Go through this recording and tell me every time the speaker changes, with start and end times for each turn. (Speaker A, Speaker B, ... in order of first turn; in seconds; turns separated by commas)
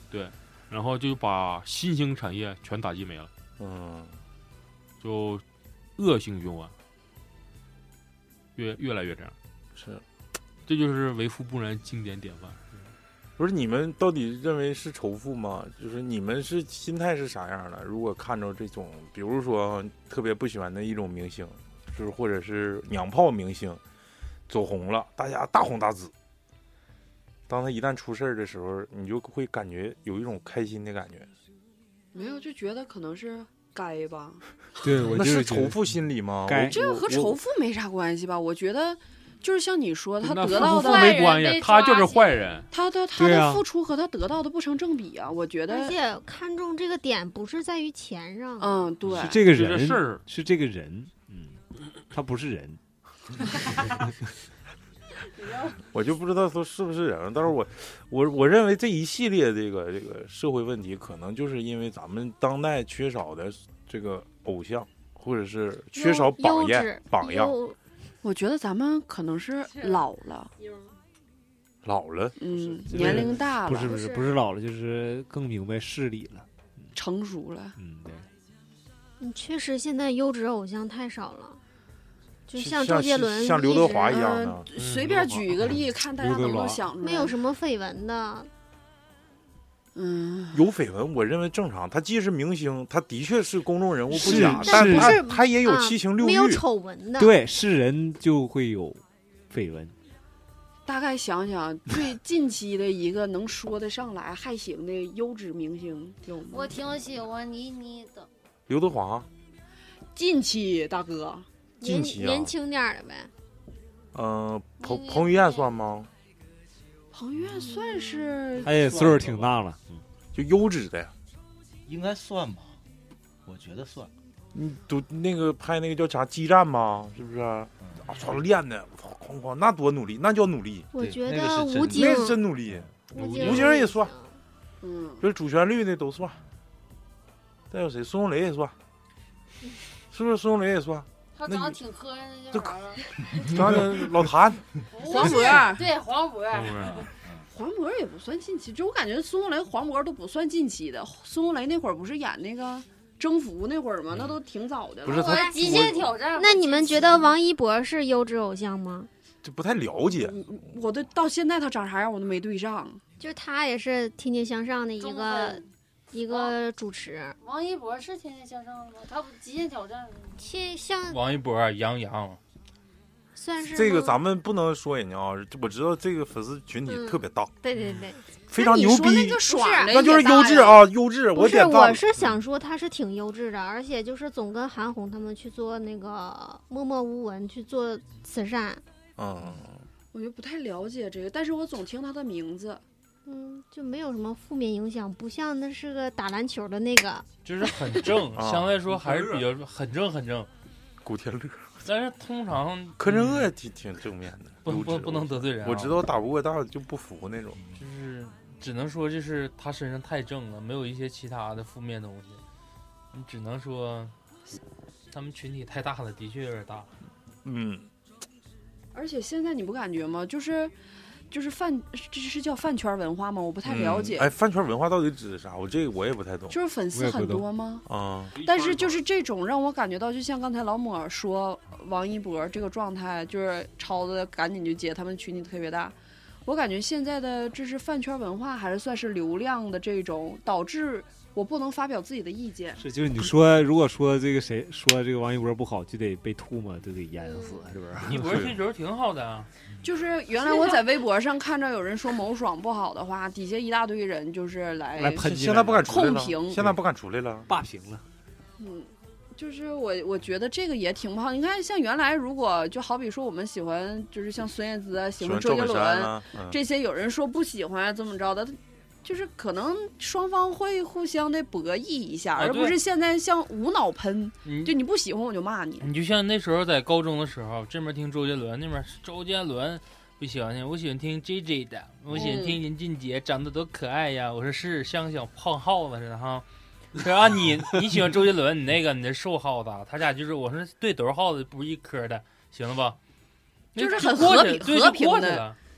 Speaker A: 0.1-3.3, Speaker B: 3.6-4.2, Speaker A: 5.0-5.5, Speaker A: 6.0-6.8, Speaker A: 8.6-9.4, Speaker B: 9.8-10.0, Speaker A: 10.7-12.6, Speaker B: 13.4-23.8, Speaker B: 24.5-26.1, Speaker B: 27.5-31.3, Speaker C: 32.1-34.4, Speaker D: 34.8-35.8, Speaker B: 35.1-37.4, Speaker D: 36.5-36.8, Speaker C: 36.7-41.2, Speaker A: 40.2-42.7, Speaker E: 40.5-42.6, Speaker C: 42.7-46.0, Speaker D: 43.2-43.6, Speaker F: 45.7-48.9, Speaker C: 48.6-49.4, Speaker A: 49.1-50.2, Speaker D: 49.1-52.8, Speaker E: 55.4-55.8, Speaker B: 55.9-67.5, Speaker F: 65.9-67.8, Speaker C: 68.2-70.5, Speaker E: 69.7-70.0, Speaker E: 70.6-70.9, Speaker B: 71.8-72.4, Speaker C: 72.4-74.0, Speaker D: 72.5-76.9, Speaker B: 72.9-73.2, Speaker C: 77.0-77.8, Speaker D: 77.8-78.3, Speaker F: 79.2-81.6, Speaker F: 82.5-84.5, Speaker B: 82.6-84.7, Speaker C: 84.1-87.4, Speaker A: 84.8-85.7, Speaker D: 86.2-86.8, Speaker F: 87.0-88.5, Speaker C: 90.0-90.7, Speaker B: 90.5-96.6, Speaker D: 94.1-95.2, Speaker F: 94.1-97.3, Speaker D: 97.2-99.9, Speaker C: 100.9-106.7, Speaker E: 106.5-108.3, Speaker B: 108.7-109.3, Speaker C: 110.2-111.5, Speaker F: 111.8-113.3, Speaker B: 111.8-112.5, Speaker B: 114.1-116.1, Speaker E: 114.8-115.8, Speaker C: 117.1-118.7, Speaker D: 118.6-120.0, Speaker G: 118.7-119.5, Speaker B: 120.3-121.1, Speaker G: 121.9-122.8, Speaker G: 123.5-124.1, Speaker B: 124.5-130.9, Speaker F: 130.9-132.4, Speaker G: 131.0-132.9, Speaker B: 131.8-134.1, Speaker F: 133.1-134.4, Speaker C: 134.8-135.2, Speaker B: 135.2-136.4, Speaker B: 137.7-138.8, Speaker B: 140.1-141.8, Speaker E: 141.3-143.1, Speaker B: 143.4-145.6, Speaker E: 144.9-147.1, Speaker C: 145.0-145.9, Speaker A: 146.5-147.0, Speaker G: 146.8-147.4, Speaker C: 147.5-155.5, Speaker B: 155.1-156.1, Speaker E: 155.1-157.3, Speaker F: 155.3-159.1, Speaker B: 159.4-160.4, Speaker C: 160.2-163.0, Speaker F: 163.2-167.4, Speaker E: 165.0-165.7, Speaker E: 166.3-166.6, Speaker E: 167.4-170.4, Speaker F: 170.4-171.2, Speaker H: 171.1-172.4, Speaker F: 173.4-174.2, Speaker B: 173.7-177.6, Speaker F: 176.9-180.0, Speaker B: 178.5-182.1, Speaker C: 178.6-180.9, Speaker F: 181.3-188.8, Speaker B: 189.2-189.8, Speaker C: 190.1-192.8, Speaker F: 193.3-197.3, Speaker H: 197.4-200.5, Speaker B: 198.3-199.3, Speaker B: 201.0-201.8, Speaker H: 201.8-203.5, Speaker B: 203.0-207.6, Speaker H: 204.7-206.0, Speaker H: 207.7-212.4, Speaker H: 213.1-214.1, Speaker H: 215.1-216.9, Speaker B: 217.4-217.9, Speaker C: 218.9-220.7, Speaker C: 221.3-224.3, Speaker B: 223.7-226.6, Speaker C: 226.5-227.9, Speaker D: 226.9-227.4, Speaker B: 227.9-228.4, Speaker A: 228.3-229.0, Speaker C: 228.4-235.9, Speaker C: 236.5-242.8, Speaker D: 242.8-248.3, Speaker H: 248.0-249.5, Speaker C: 249.8-255.2, Speaker D: 255.0-256.0, Speaker B: 255.2-257.5, Speaker C: 255.9-256.7, Speaker D: 257.5-258.0, Speaker C: 258.6-275.9, Speaker B: 265.2-266.6, Speaker H: 272.4-272.8, Speaker H: 274.4-274.8, Speaker H: 275.8-293.0, Speaker C: 282.1-282.6, Speaker H: 293.8-295.6, Speaker C: 293.8-295.5